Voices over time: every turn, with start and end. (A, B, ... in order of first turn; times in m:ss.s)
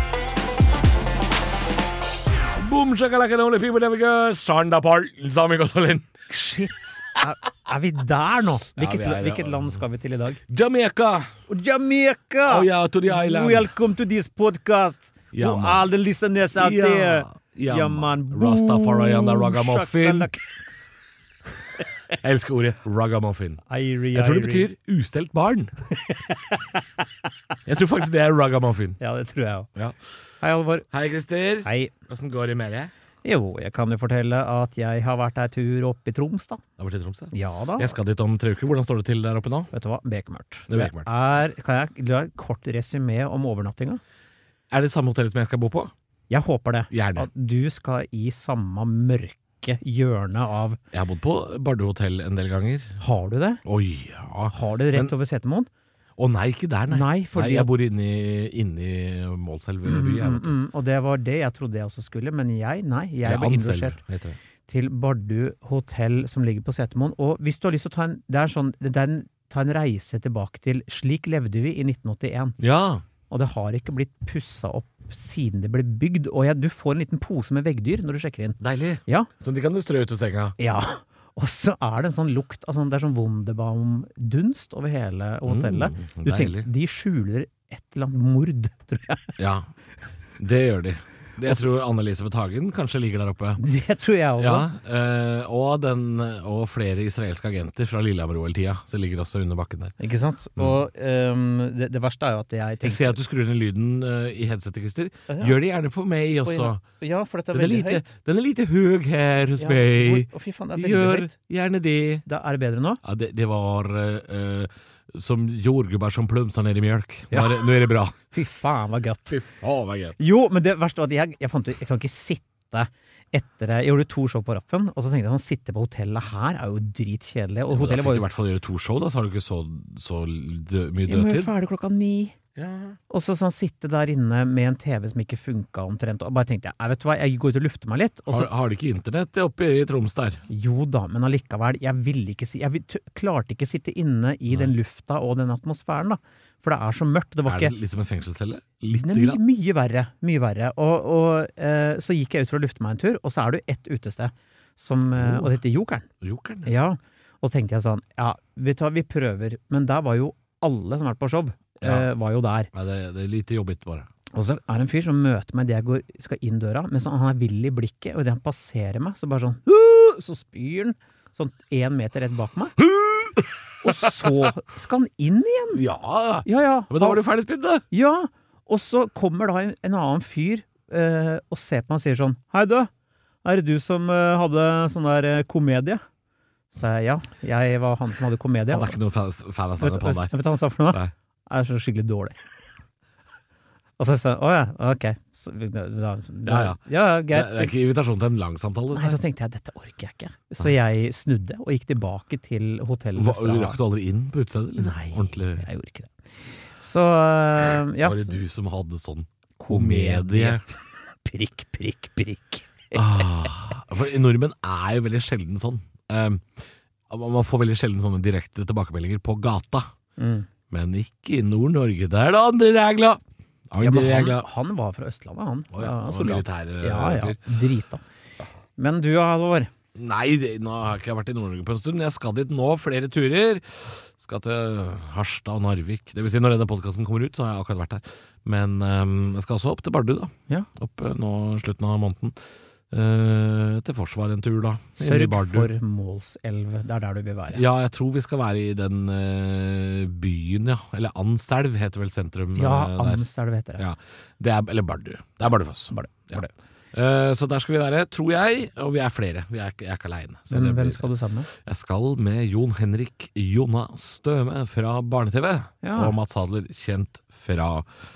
0:02.6-0:06.1 A
0:06.3-0:10.4 B
0:08.8-0:09.8 A
0:10.5-0:11.3 A
0:11.5-0:20.4 B
0:12.4-0:13.7 A
0:15.3-0:15.8 A
0:16.6-0:20.3 A
0:22.1-0:23.6 A
0:23.7-0:24.7 B
0:24.1-0:25.7 A
0:26.1-0:26.8 B
0:27.6-0:29.0 A
0:29.0-0:29.7 B
0:30.4-0:30.8 B
0:30.9-0:32.9 A
0:31.6-0:31.9 B
0:33.2-0:36.6 B
0:36.8-0:39.7 A
0:37.3-0:37.9 B
0:39.7-0:44.0 B
0:40.7-0:41.1 A
0:44.7-0:45.9 A
0:46.3-0:50.8 B
0:46.9-0:47.3 A
0:50.9-0:53.0 A
0:53.0-0:53.6 B
0:53.6-0:55.1 A
0:54.5-0:55.7 B
0:56.2-1:00.5 A
0:56.9-0:57.7 B
0:59.8-1:04.0 B
1:03.2-1:04.4 A
1:04.7-1:12.6 B
1:12.6-1:13.0 A
1:13.3-1:19.3 B
1:18.6-1:20.6 A
1:20.6-1:29.3 B
1:25.4-1:26.7 A
1:29.4-1:29.7 A
1:30.4-1:33.6 A
1:33.6-1:34.7 B
1:34.4-1:39.9 A
1:40.0-1:43.2 B
1:42.8-1:46.8 A
1:45.3-1:45.6 B
1:46.4-1:48.1 B
1:47.5-1:52.2 A
1:49.6-1:51.3 B
1:52.2-1:53.0 B
1:53.0-1:58.1 A
1:57.3-1:57.7 B
1:58.3-1:59.4 B
1:59.3-2:00.2 A
2:00.2-2:08.3 B
2:07.7-2:11.5 A
2:11.1-2:12.3 B
2:12.6-2:13.0 A
2:13.1-2:18.5 B
2:18.3-2:20.4 A
2:20.5-2:27.7 B
2:27.4-2:29.4 A
2:28.9-2:36.1 B
2:35.2-2:35.6 A
2:36.2-2:36.7 A
2:36.6-2:42.7 B
2:41.8-2:42.1 A
2:42.7-2:44.1 A
2:44.3-2:52.8 B
2:52.8-2:54.5 A
2:53.8-2:55.8 B
2:55.7-2:57.8 A
2:56.4-2:57.2 B
2:57.9-3:02.9 B
3:03.4-3:06.0 B
3:06.7-3:09.0 B
3:08.7-3:10.3 A
3:09.8-3:12.3 B
3:14.0-3:17.7 B
3:16.4-3:19.2 A
3:18.9-3:23.8 B
3:23.2-3:25.6 A
3:24.8-3:26.2 B
3:26.8-3:28.3 B
3:28.0-3:30.6 A
3:29.6-3:30.7 B
3:31.2-3:33.2 B
3:32.9-3:36.5 A
3:37.1-3:39.8 A
3:40.2-3:40.5 B
3:40.7-3:44.4 A
3:43.8-3:48.0 B
3:45.7-3:47.4 A
3:48.8-3:49.7 B
3:49.9-4:02.3 A
4:02.9-4:05.7 A
4:05.0-4:07.6 B
4:07.5-4:13.2 A
4:12.6-4:13.8 B
4:13.8-4:27.9 A
4:15.9-4:16.5 B
4:20.5-4:21.5 B
4:25.8-4:26.1 B